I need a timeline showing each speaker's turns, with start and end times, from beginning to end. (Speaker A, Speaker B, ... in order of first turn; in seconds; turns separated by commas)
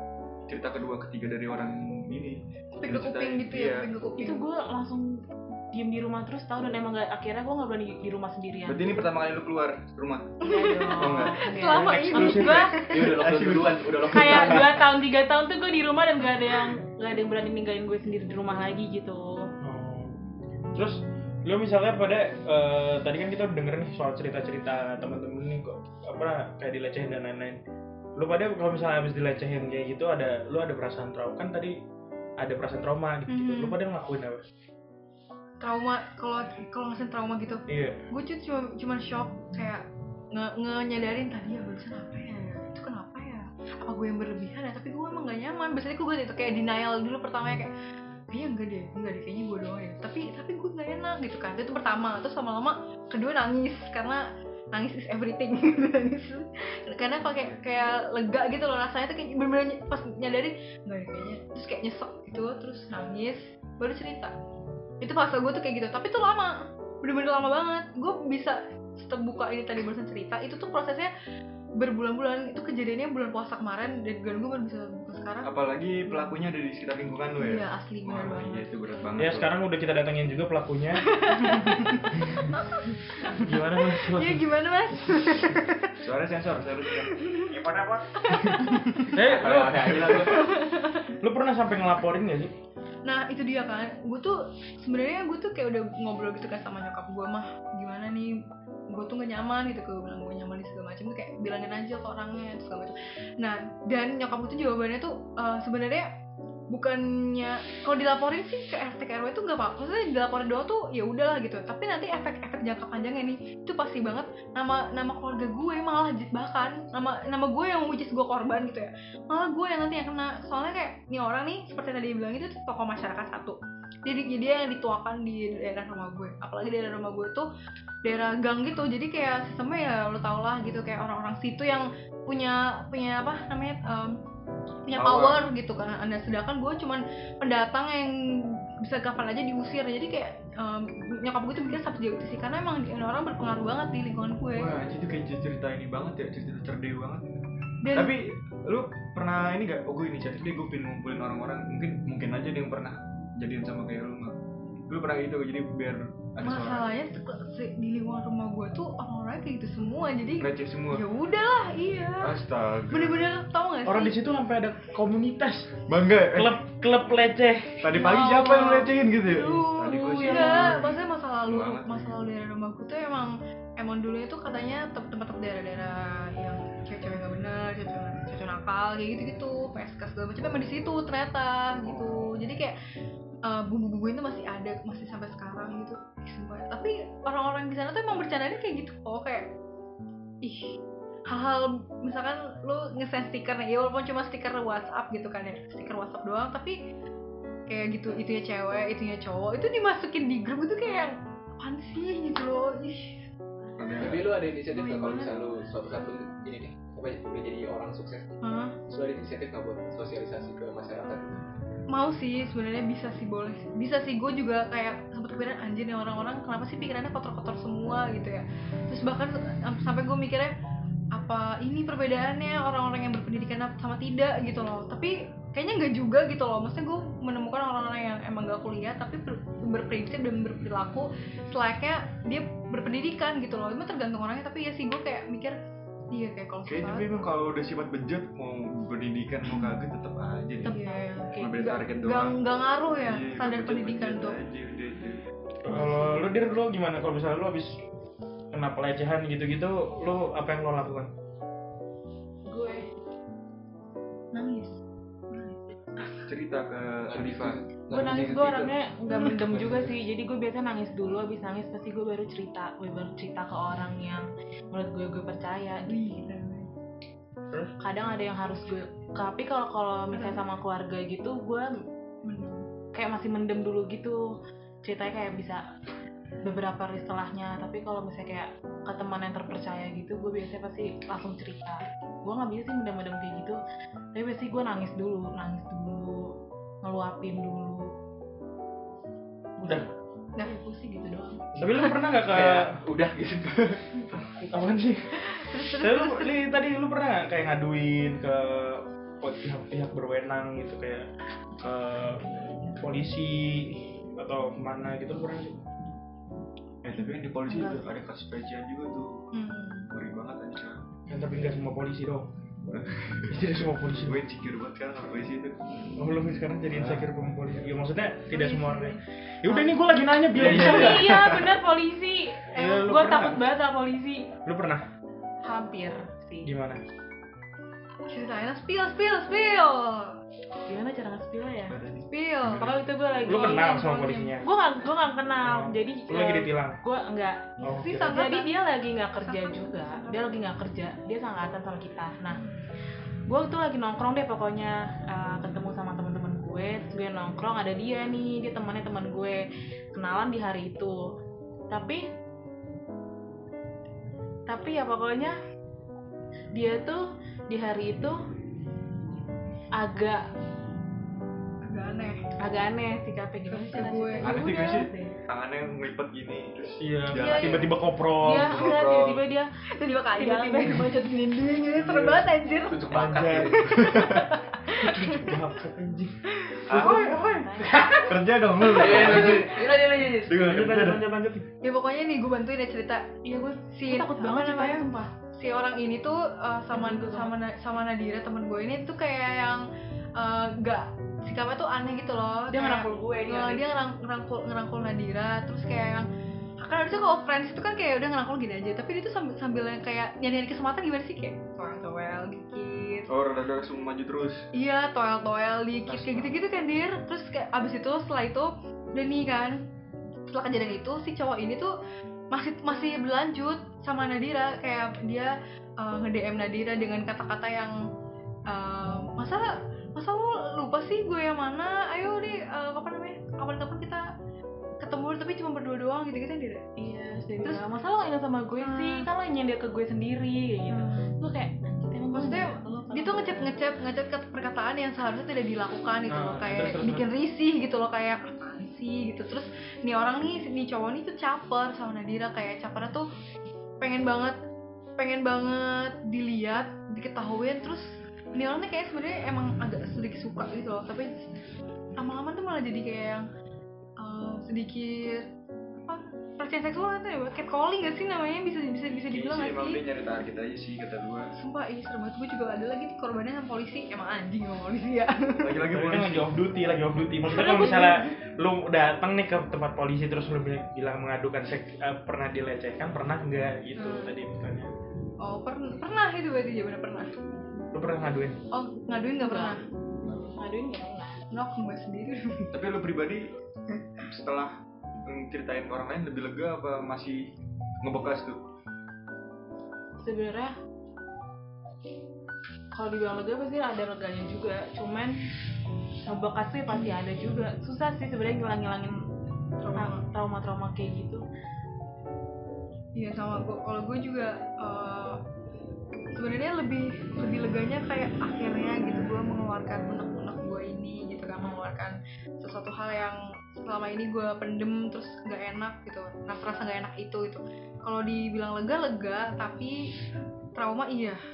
Speaker A: 0.5-3.9, Speaker B: 2.8-4.5, Speaker C: 4.2-8.9, Speaker A: 8.7-10.3, Speaker C: 10.4-12.8, Speaker B: 10.4-13.2, Speaker A: 11.0-11.4, Speaker D: 11.6-12.7, Speaker E: 12.9-14.8, Speaker A: 13.0-14.7, Speaker C: 14.1-19.5, Speaker D: 19.6-20.2, Speaker D: 20.7-27.6, Speaker D: 28.2-31.8, Speaker D: 32.4-34.4, Speaker B: 33.3-33.8, Speaker B: 35.6-47.7, Speaker D: 37.7-38.0, Speaker B: 48.3-64.3, Speaker B: 65.0-71.1, Speaker B: 71.8-75.5, Speaker A: 75.5-79.5, Speaker B: 76.1-76.4, Speaker B: 77.4-78.7, Speaker D: 79.2-81.1, Speaker B: 81.1-86.0, Speaker D: 82.2-82.5, Speaker D: 83.3-84.5, Speaker A: 86.0-87.1, Speaker B: 86.9-87.5, Speaker D: 87.5-88.1, Speaker B: 88.2-89.1, Speaker A: 88.4-88.7, Speaker D: 89.1-90.4, Speaker E: 89.2-90.5, Speaker A: 89.7-90.3, Speaker B: 90.3-91.1, Speaker D: 91.2-92.5, Speaker B: 93.0-106.1, Speaker B: 106.7-127.5, Speaker B: 128.1-134.2, Speaker B: 134.9-144.7, Speaker A: 134.9-135.4, Speaker A: 144.6-154.4, Speaker B: 147.8-148.2, Speaker A: 154.9-156.9, Speaker B: 156.4-162.4, Speaker A: 160.4-161.0, Speaker A: 162.2-163.3, Speaker B: 162.9-164.2, Speaker D: 163.8-167.9, Speaker A: 165.9-166.6, Speaker A: 167.8-172.0, Speaker B: 167.9-182.8, Speaker C: 170.2-170.5, Speaker A: 181.8-182.3, Speaker B: 183.4-189.5, Speaker B: 190.4-190.7, Speaker B: 191.3-196.8, Speaker B: 197.7-203.3, Speaker A: 203.8-204.4, Speaker E: 204.0-211.4, Speaker B: 208.4-208.8, Speaker B: 211.9-220.6, Speaker B: 221.2-235.6, Speaker B: 236.1-237.1, Speaker A: 236.7-240.7, Speaker B: 239.5-239.8, Speaker C: 240.7-241.5, Speaker B: 240.7-244.4, Speaker A: 241.4-242.4, Speaker A: 243.0-245.2, Speaker D: 245.6-247.8, Speaker B: 245.7-246.3, Speaker D: 248.5-251.1, Speaker C: 252.5-252.9, Speaker B: 254.3-254.8, Speaker B: 255.3-256.2, Speaker A: 256.3-257.6, Speaker E: 257.1-258.8, Speaker C: 257.9-266.0, Speaker B: 265.9-266.7, Speaker C: 267.8-271.7, Speaker B: 270.1-270.4, Speaker B: 272.2-272.7, Speaker C: 272.9-274.3, Speaker C: 274.8-275.6, Speaker C: 276.4-283.6, Speaker C: 284.1-287.9, Speaker C: 289.6-289.9, Speaker B: 290.4-291.9, Speaker D: 291.6-292.8, Speaker E: 292.3-293.8, Speaker D: 294.3-295.1, Speaker B: 295.3-296.3, Speaker D: 295.6-301.1, Speaker D: 301.6-302.2, Speaker D: 302.8-305.6, Speaker A: 306.8-309.2, Speaker C: 307.5-307.9, Speaker B: 309.3-309.9, Speaker A: 309.9-310.8, Speaker D: 311.1-312.3, Speaker A: 312.7-313.3, Speaker D: 313.3-314.2, Speaker A: 314.1-315.6, Speaker D: 316.0-321.2, Speaker A: 316.7-317.1, Speaker B: 318.3-319.8, Speaker A: 320.4-321.6, Speaker C: 320.4-324.3, Speaker D: 322.5-323.4, Speaker D: 324.5-324.8, Speaker C: 325.4-326.5, Speaker D: 326.4-326.8, Speaker B: 328.1-330.2, Speaker C: 330.7-331.8, Speaker A: 331.7-332.7, Speaker B: 332.1-332.7, Speaker C: 332.6-342.4, Speaker D: 333.3-334.4, Speaker D: 335.4-336.8, Speaker D: 337.6-338.1, Speaker B: 337.7-338.5, Speaker B: 339.2-340.4, Speaker C: 343.3-349.4, Speaker C: 349.9-351.0, Speaker C: 351.7-352.0, Speaker C: 354.5-355.4, Speaker C: 356.6-358.2, Speaker C: 359.8-360.2, Speaker B: 361.6-362.2, Speaker C: 362.4-365.2, Speaker B: 363.5-364.9, Speaker A: 364.2-367.8, Speaker D: 366.8-368.7, Speaker B: 367.2-367.7, Speaker C: 368.2-369.5, Speaker A: 368.3-369.2, Speaker B: 369.8-372.8, Speaker C: 370.2-370.9, Speaker D: 371.8-372.3, Speaker E: 372.7-374.0, Speaker D: 372.9-373.7, Speaker B: 373.7-375.4, Speaker A: 373.9-374.2, Speaker D: 374.8-376.1, Speaker B: 376.5-377.4, Speaker A: 376.7-377.2, Speaker D: 376.7-377.4, Speaker C: 376.8-378.0, Speaker E: 377.7-378.1, Speaker A: 377.9-379.7, Speaker E: 378.7-380.4, Speaker D: 378.9-379.4, Speaker A: 380.2-381.0, Speaker D: 380.3-381.5, Speaker B: 381.6-383.1, Speaker C: 383.2-385.1, Speaker B: 383.7-389.6, Speaker C: 386.7-387.4, Speaker B: 390.2-396.1, Speaker C: 392.5-393.7, Speaker B: 396.6-403.1, Speaker A: 403.1-404.5, Speaker B: 404.5-409.6, Speaker A: 405.9-406.4, Speaker B: 410.3-411.7, Speaker B: 412.3-417.8, Speaker B: 418.5-424.1, Speaker B: 424.8-426.7, Speaker C: 426.8-433.6, Speaker B: 428.6-429.1, Speaker B: 430.7-431.1, Speaker B: 432.1-443.1, Speaker D: 436.1-437.1, Speaker B: 443.8-444.4, Speaker B: 445.0-451.3, Speaker B: 452.0-453.3, Speaker B: 454.0-455.3, Speaker B: 455.9-459.8, Speaker A: 459.1-461.3, Speaker B: 461.4-465.6, Speaker A: 465.4-466.3, Speaker D: 465.7-474.7, Speaker B: 467.3-468.1, Speaker B: 473.8-474.1, Speaker B: 475.2-477.6, Speaker D: 477.7-478.4, Speaker B: 478.5-480.3, Speaker C: 479.2-479.6, Speaker C: 480.4-481.2, Speaker B: 481.3-482.5, Speaker A: 482.5-483.3, Speaker A: 484.1-484.5, Speaker A: 485.1-487.3, Speaker A: 487.8-488.4, Speaker C: 490.0-490.6, Speaker C: 492.8-495.2, Speaker C: 496.1-499.0, Speaker B: 499.6-500.0, Speaker C: 499.8-501.2, Speaker B: 502.9-505.2, Speaker B: 506.2-519.9, Speaker B: 520.6-521.2